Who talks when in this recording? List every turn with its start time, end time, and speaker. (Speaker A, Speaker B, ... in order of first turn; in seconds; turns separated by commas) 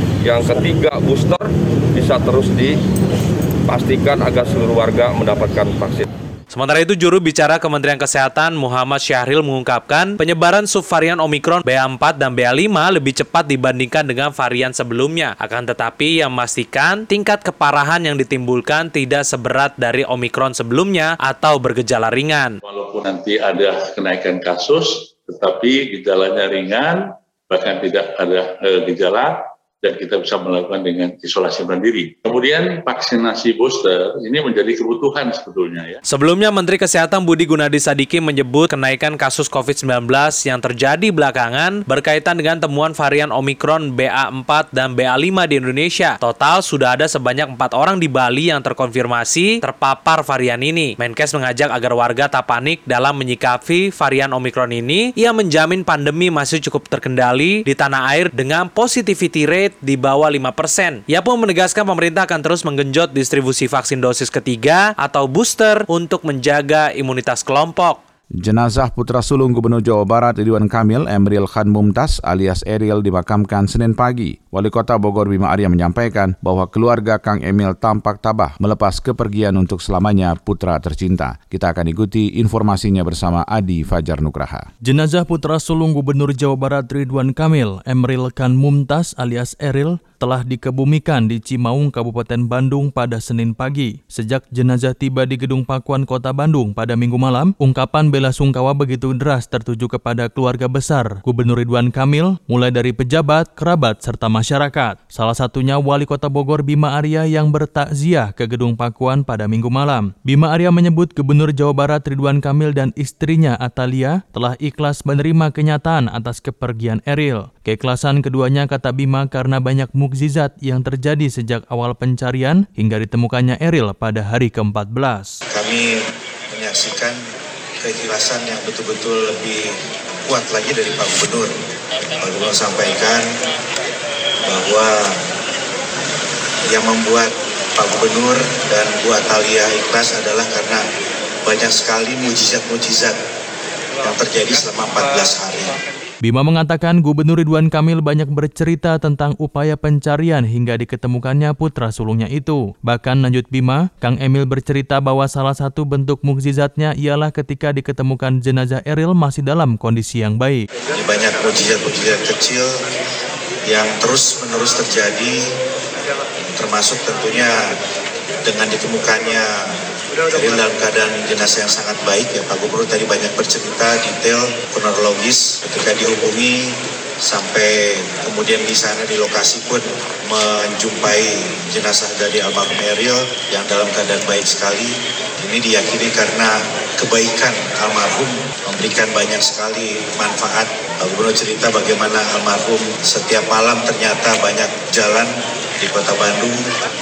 Speaker A: 0.2-2.8, Speaker A: 3.7-6.1, Speaker B: 6.5-22.6, Speaker C: 22.6-36.0, Speaker B: 36.1-68.0, Speaker D: 68.4-84.7, Speaker E: 84.8-125.4, Speaker F: 125.5-125.9, Speaker F: 126.5-127.2, Speaker F: 127.8-129.7, Speaker F: 130.3-131.5, Speaker F: 132.2-133.2, Speaker F: 134.5-135.2, Speaker F: 136.7-140.8, Speaker F: 141.4-143.2, Speaker F: 144.0-145.8, Speaker E: 146.2-160.6, Speaker F: 160.9-162.7, Speaker F: 163.7-165.4, Speaker F: 166.6-167.7, Speaker F: 168.4-169.7, Speaker F: 170.3-196.6